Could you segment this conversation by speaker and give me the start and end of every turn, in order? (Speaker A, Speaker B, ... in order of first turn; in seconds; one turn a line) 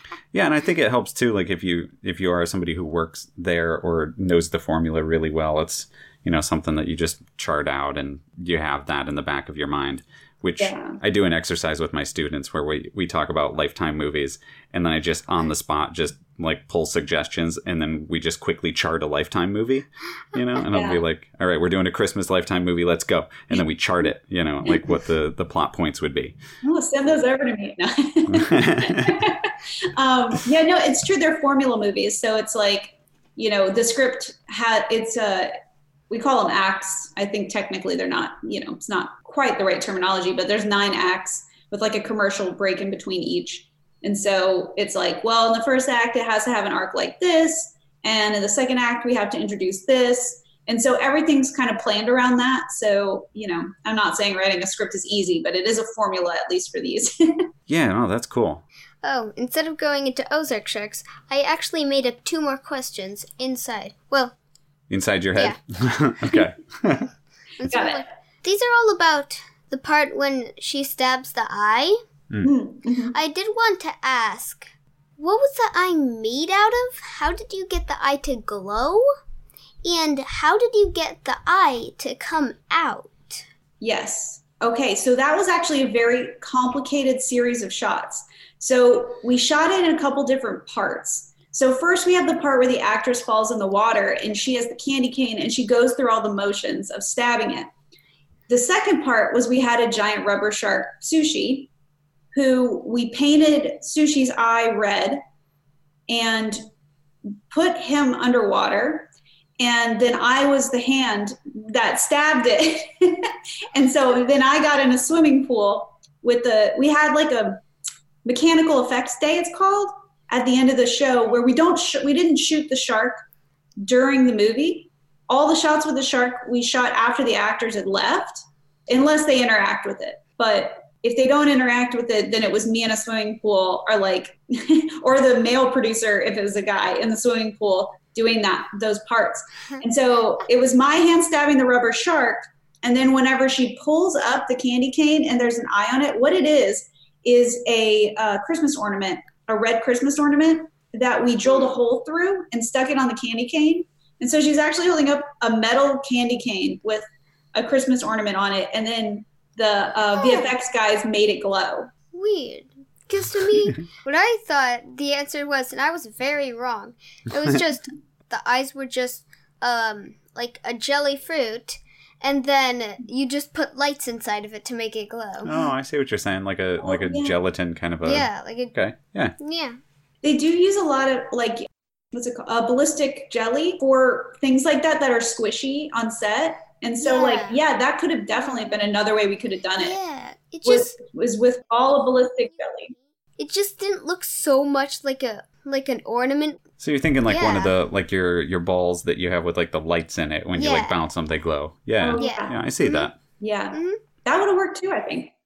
Speaker A: 0.3-26.4
Speaker B: 10.6-11.0
Speaker B: 20.7-21.0
Speaker B: 26.6-35.5
Speaker A: 28.3-29.2
Speaker B: 36.1-57.5
Speaker A: 57.7-58.6
Speaker C: 59.0-64.4
Speaker A: 64.9-67.1
Speaker C: 67.6-72.0
Speaker B: 67.7-68.0
Speaker B: 72.4-73.1
Speaker C: 73.1-79.0
Speaker C: 79.8-83.4
Speaker B: 83.8-97.7
Speaker B: 98.5-101.7
Speaker B: 102.3-105.2
Speaker B: 106.1-106.6
Speaker B: 107.5-109.1
Speaker B: 109.6-117.6
Speaker B: 118.2-123.2
Speaker B: 123.8-161.9
Speaker C: 160.2-160.5
Speaker C: 162.1-175.5
Speaker A: 175.4-179.3
Speaker B: 176.8-177.4
Speaker C: 178.1-178.8
Speaker C: 179.4-179.8
Speaker B: 180.2-190.0
Speaker C: 187.0-187.6
Speaker C: 188.4-188.8
Speaker C: 189.8-191.0
Speaker B: 190.7-192.9
Speaker C: 193.0-196.6
Speaker A: 196.8-203.2
Speaker C: 197.3-197.7
Speaker C: 200.6-201.0
Speaker B: 202.0-202.6
Speaker C: 202.2-203.1
Speaker B: 203.4-205.3
Speaker C: 203.7-204.0